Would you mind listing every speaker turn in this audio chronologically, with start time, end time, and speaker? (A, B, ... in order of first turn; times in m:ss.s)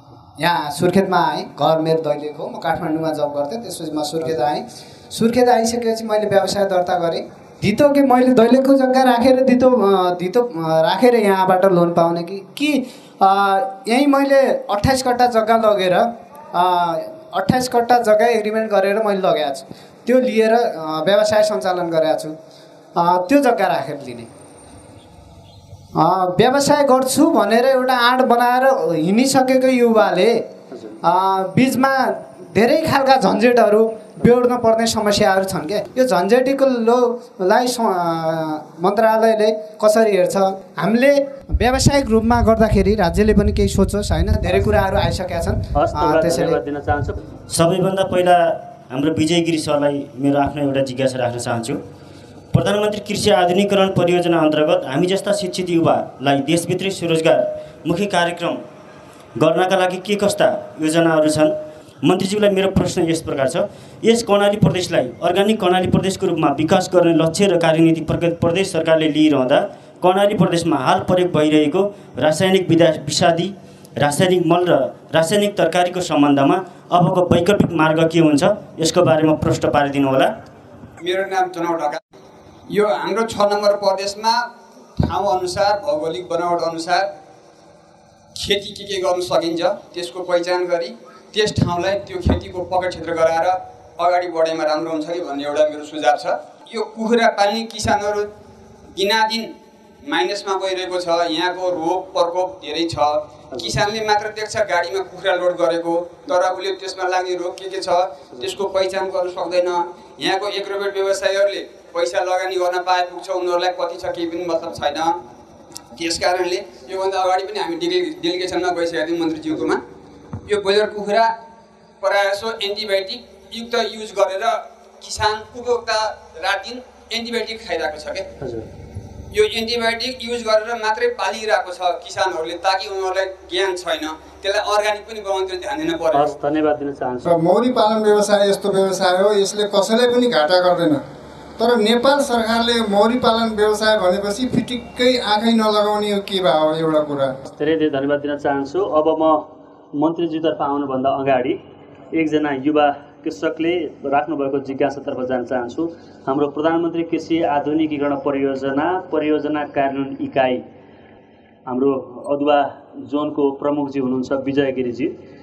0:00.4-0:22.3 A
0:23.0-0:24.3 A
0:26.0-0:30.4 A
0:30.7-0:31.0 B
0:31.0-0:46.6 A
0:45.7-0:47.2 B
0:47.5-0:51.8 C
0:52.5-0:58.6 C
0:59.4-1:20.3 C
1:21.0-1:22.0 D
1:22.7-1:24.4 D
1:25.0-1:27.1 D
1:28.3-1:38.3 D
1:39.0-1:39.5 D
1:40.0-1:55.2 D
1:43.5-1:43.8 B
1:55.9-1:59.8 D
2:00.4-2:01.3 D
2:02.0-2:08.2 D
2:08.4-2:08.7 B
2:09.3-2:16.3 D
2:16.1-2:17.4 B
2:17.2-2:21.0 E
2:21.6-2:27.4 E
2:27.4-2:31.6 B
2:32.1-2:40.6 B
2:41.7-2:45.1 B